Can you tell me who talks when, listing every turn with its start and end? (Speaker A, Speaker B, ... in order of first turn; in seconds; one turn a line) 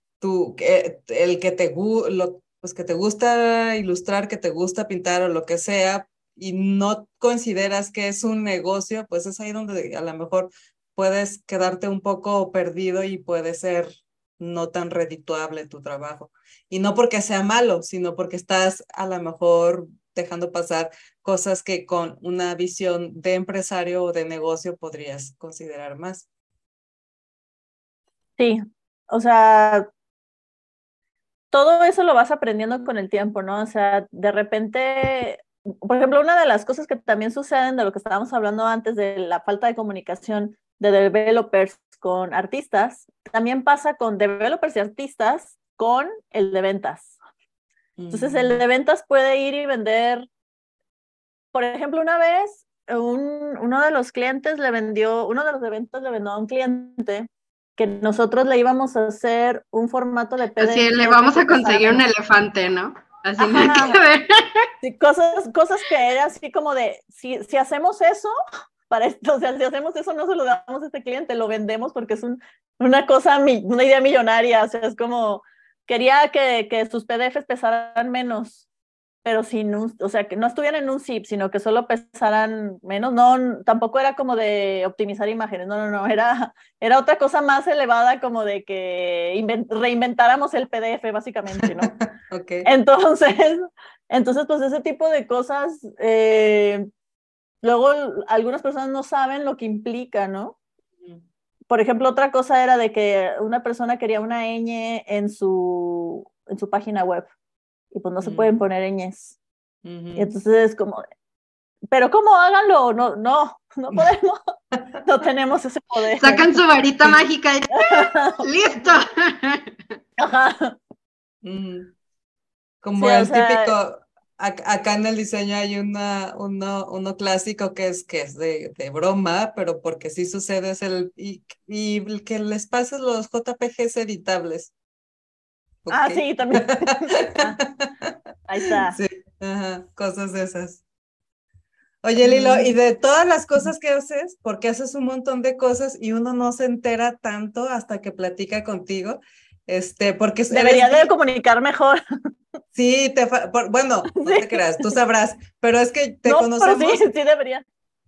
Speaker A: 0.2-26.2
Speaker B: 28.4-29.9
Speaker B: 31.5-47.1
Speaker A: 48.0-48.6
Speaker B: 48.1-50.3
Speaker B: 51.5-62.0
Speaker C: 60.6-64.7
Speaker B: 63.4-64.0
Speaker B: 64.8-68.3
Speaker B: 68.9-78.6
Speaker B: 79.2-91.9
Speaker A: 91.5-92.7
Speaker B: 92.6-96.9
Speaker B: 97.6-100.6
Speaker B: 101.7-107.3
Speaker B: 107.9-109.4
Speaker A: 108.2-108.5
Speaker A: 109.8-110.3
Speaker B: 110.2-111.0
Speaker B: 111.9-114.4
Speaker A: 114.7-115.0
Speaker B: 115.0-116.5
Speaker C: 116.2-119.7
Speaker B: 117.7-118.4
Speaker B: 120.2-120.8
Speaker A: 121.4-121.9
Speaker A: 122.8-134.7
Speaker B: 123.0-123.7
Speaker A: 135.8-138.1
Speaker B: 135.9-137.6
Speaker B: 138.5-139.0
Speaker A: 138.8-140.8
Speaker A: 142.0-151.1
Speaker B: 142.2-142.7
Speaker B: 150.5-152.0
Speaker A: 152.7-157.1
Speaker B: 154.1-154.9
Speaker B: 156.2-157.6